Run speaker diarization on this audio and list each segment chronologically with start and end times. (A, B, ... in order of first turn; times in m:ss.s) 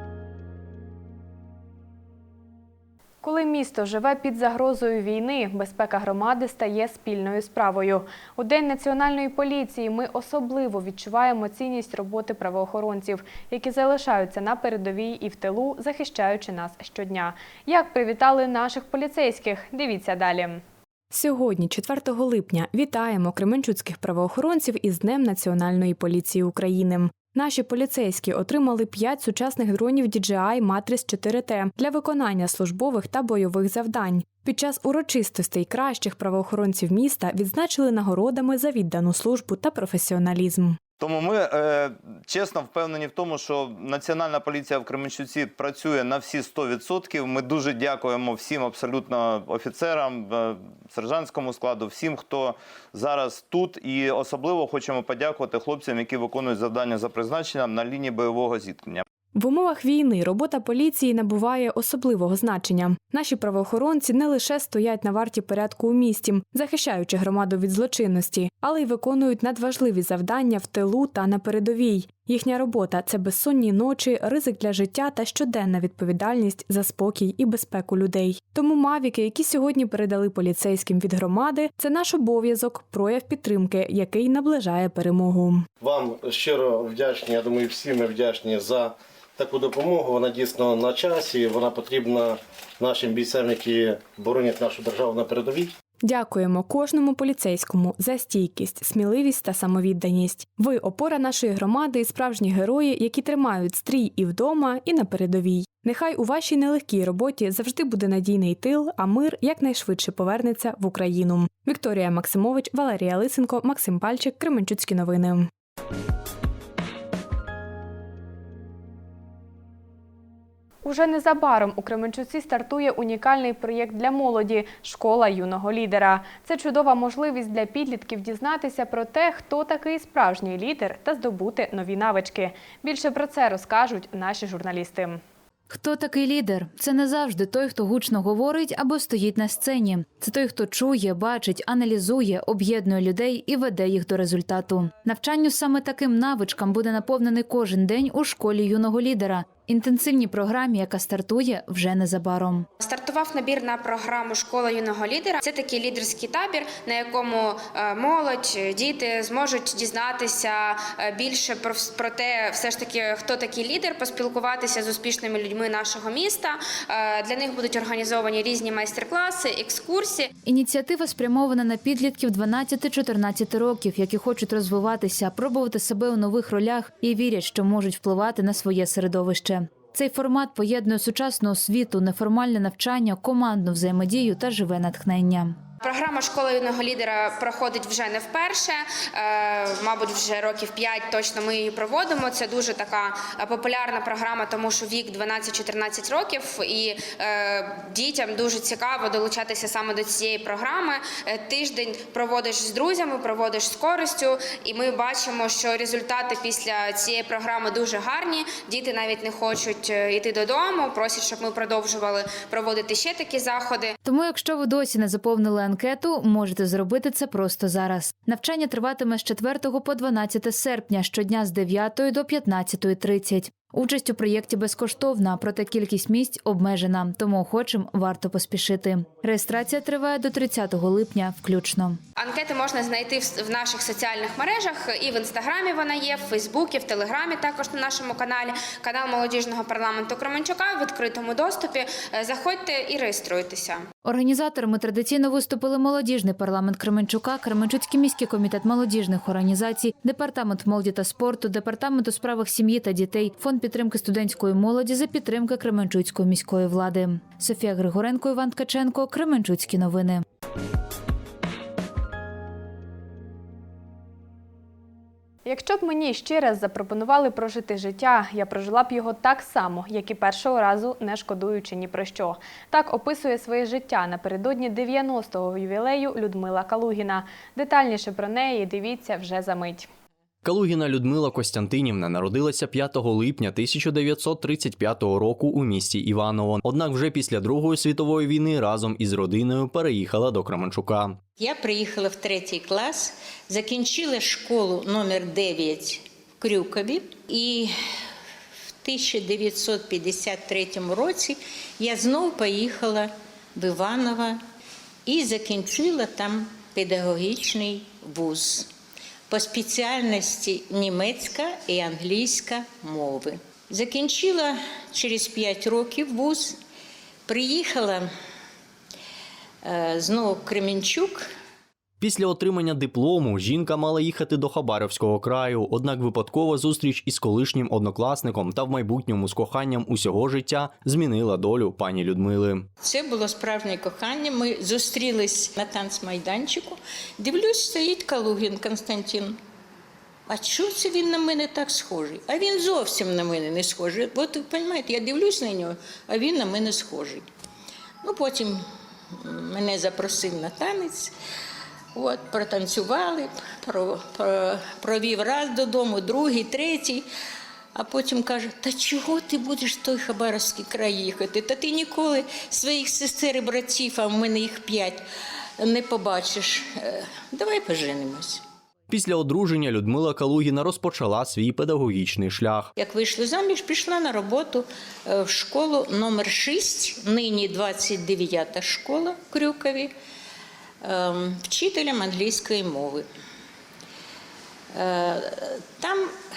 0:03.2-0:40.8 A
0:41.0-0:59.0 B
0:59.3-1:25.6 A
1:25.8-1:35.7 C
1:36.0-1:55.5 A
2:00.8-2:15.2 A
2:15.7-2:32.7 D
2:32.8-2:50.3 E
2:50.4-3:05.6 D
3:05.8-3:34.0 E
3:34.0-3:52.0 D
3:52.2-4:03.8 E
4:04.0-4:20.2 D
4:25.4-4:39.9 A
4:40.4-4:51.2 F
4:51.4-4:57.7 G
4:58.8-5:04.4 G
5:05.0-5:08.7 G
5:09.3-5:16.6 G
5:17.3-5:18.1 G
5:19.6-5:21.2 G
5:22.0-5:32.6 F
5:32.8-5:39.4 G
5:40.3-5:47.2 G
5:48.0-5:48.6 G
5:49.2-5:51.1 G
5:51.9-5:57.0 G
5:57.8-6:05.0 G
6:05.6-6:08.4 G
6:08.9-6:12.7 F
6:12.8-6:19.9 G
6:20.8-6:23.0 G
6:24.7-6:26.1 G